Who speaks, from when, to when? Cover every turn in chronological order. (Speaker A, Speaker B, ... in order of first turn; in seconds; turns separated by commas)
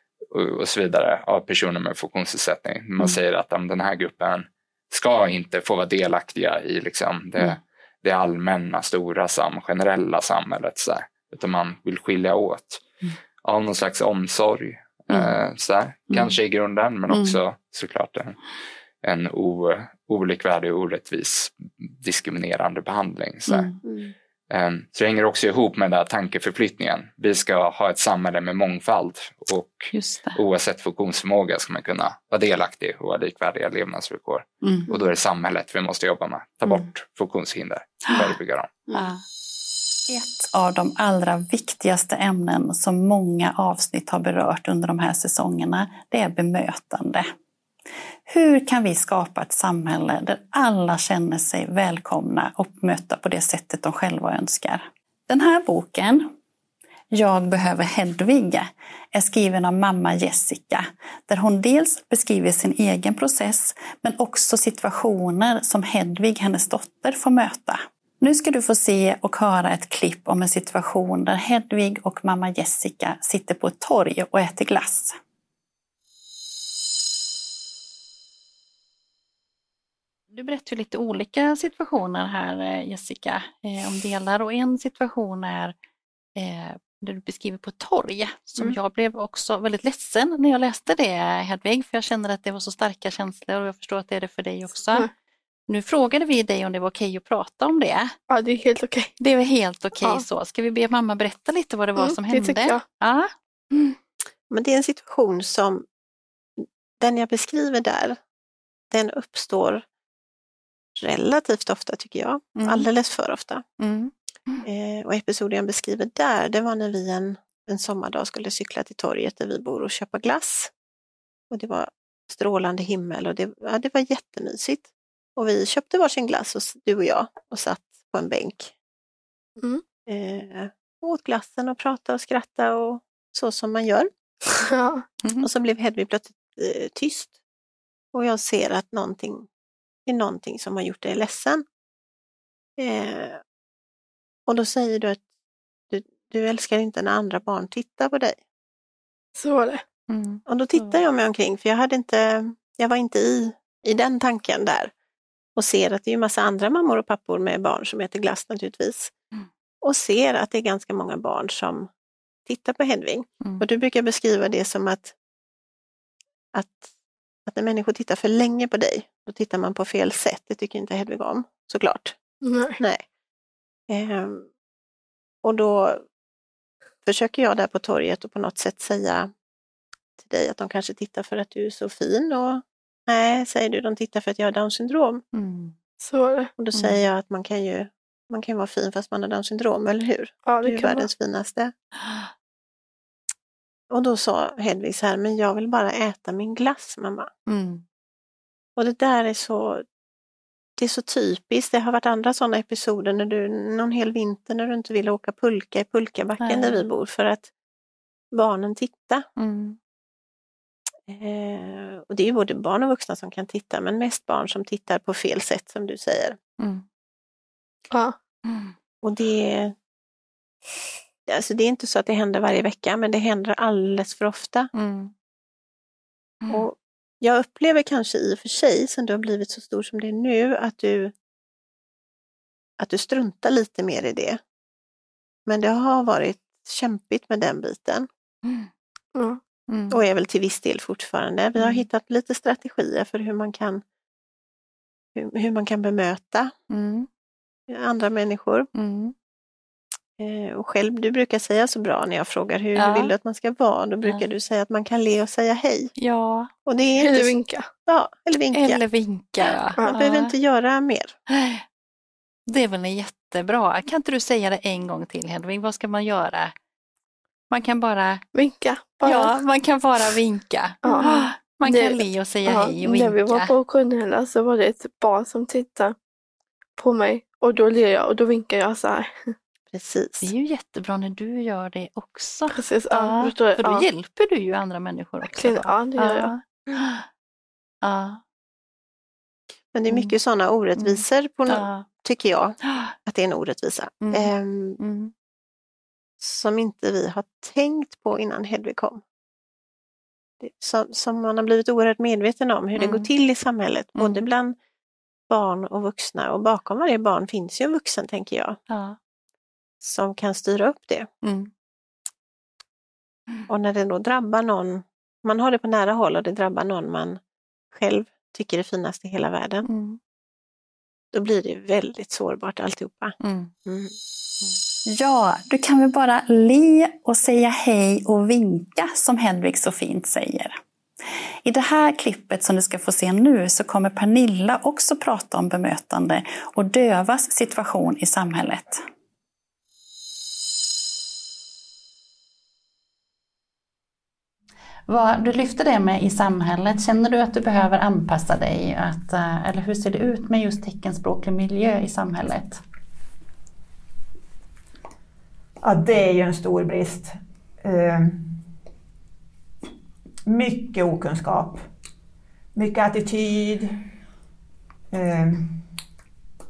Speaker A: 0.3-12.8, Speaker A: 13.4-18.4, Speaker B: 15.1-15.3, Speaker B: 16.1-16.4, Speaker B: 17.1-17.4, Speaker A: 19.0-23.7, Speaker B: 23.5-24.1, Speaker A: 24.5-38.7, Speaker B: 29.9-30.4, Speaker B: 34.6-35.0, Speaker B: 38.1-38.3, Speaker B: 38.9-39.2, Speaker B: 40.1-47.3, Speaker B: 48.2-56.3, Speaker B: 57.1-75.2, Speaker B: 80.3-85.7, Speaker B: 86.3-95.1, Speaker B: 95.7-98.1, Speaker C: 98.3-99.1, Speaker B: 99.2-104.0, Speaker C: 100.0-100.2, Speaker C: 102.0-102.8, Speaker D: 104.5-105.8, Speaker D: 106.6-108.2, Speaker D: 108.9-109.8, Speaker D: 111.0-113.6, Speaker B: 112.6-112.9, Speaker B: 113.8-114.6, Speaker D: 114.6-120.7, Speaker D: 121.5-128.7, Speaker D: 130.1-134.1, Speaker C: 134.5-135.0, Speaker D: 135.4-137.3, Speaker D: 138.1-139.4, Speaker D: 140.1-141.6, Speaker D: 142.8-143.4, Speaker D: 144.5-145.2, Speaker D: 145.9-148.4, Speaker C: 149.3-149.8, Speaker B: 150.1-150.9, Speaker D: 150.5-154.9, Speaker D: 155.6-159.1, Speaker D: 159.8-161.9, Speaker D: 162.4-165.1, Speaker D: 166.5-166.9, Speaker D: 167.5-172.2, Speaker C: 172.4-172.8, Speaker D: 173.9-174.4, Speaker D: 175.4-176.0, Speaker D: 177.0-179.3, Speaker D: 180.2-185.2, Speaker B: 185.3-185.7, Speaker C: 186.0-186.5, Speaker D: 186.6-191.7, Speaker C: 190.4-191.1, Speaker B: 192.0-192.3, Speaker D: 193.9-197.3, Speaker B: 197.5-197.8, Speaker D: 198.8-199.8, Speaker D: 200.8-207.5, Speaker B: 206.4-206.8, Speaker D: 208.3-209.2, Speaker B: 209.4-209.8, Speaker D: 211.1-216.4, Speaker B: 216.6-216.8, Speaker C: 217.9-218.2, Speaker B: 218.5-218.7, Speaker D: 219.0-219.7, Speaker D: 221.3-224.7, Speaker B: 224.7-225.1, Speaker D: 226.5-231.1, Speaker D: 232.8-234.4, Speaker D: 235.5-238.1, Speaker C: 239.1-239.4, Speaker B: 239.7-240.0, Speaker D: 239.9-243.8, Speaker D: 245.2-246.5, Speaker B: 246.7-247.1, Speaker D: 247.7-248.7, Speaker B: 248.7-249.1, Speaker D: 250.2-255.9, Speaker B: 252.8-253.1, Speaker B: 256.0-256.5, Speaker D: 256.6-257.3, Speaker C: 256.9-257.7, Speaker D: 257.9-258.8, Speaker B: 258.5-260.3, Speaker D: 259.8-261.1, Speaker B: 261.3-261.6, Speaker B: 262.5-266.5, Speaker B: 267.5-268.2, Speaker C: 268.3-269.4, Speaker B: 269.0-273.5, Speaker C: 270.8-275.9, Speaker C: 276.8-279.3, Speaker D: 279.7-280.3, Speaker B: 280.2-287.1, Speaker C: 282.5-283.9, Speaker C: 285.3-286.3, Speaker B: 287.8-288.2, Speaker D: 289.7-294.8, Speaker B: 289.9-290.1, Speaker B: 290.8-291.9, Speaker B: 292.6-292.9, Speaker B: 294.0-295.1, Speaker D: 296.2-299.0, Speaker D: 300.4-304.6, Speaker B: 302.8-303.1, Speaker D: 305.3-308.6, Speaker B: 308.7-309.0, Speaker D: 309.8-311.1, Speaker B: 311.2-311.5, Speaker D: 313.5-317.2, Speaker D: 317.7-319.7, Speaker B: 319.6-320.0, Speaker D: 321.1-323.9, Speaker B: 323.2-323.5, Speaker B: 324.9-330.6, Speaker B: 331.4-338.8, Speaker B: 344.9-352.6, Speaker E: 355.6-358.4, Speaker E: 360.2-361.6, Speaker E: 362.5-363.8, Speaker E: 364.9-365.6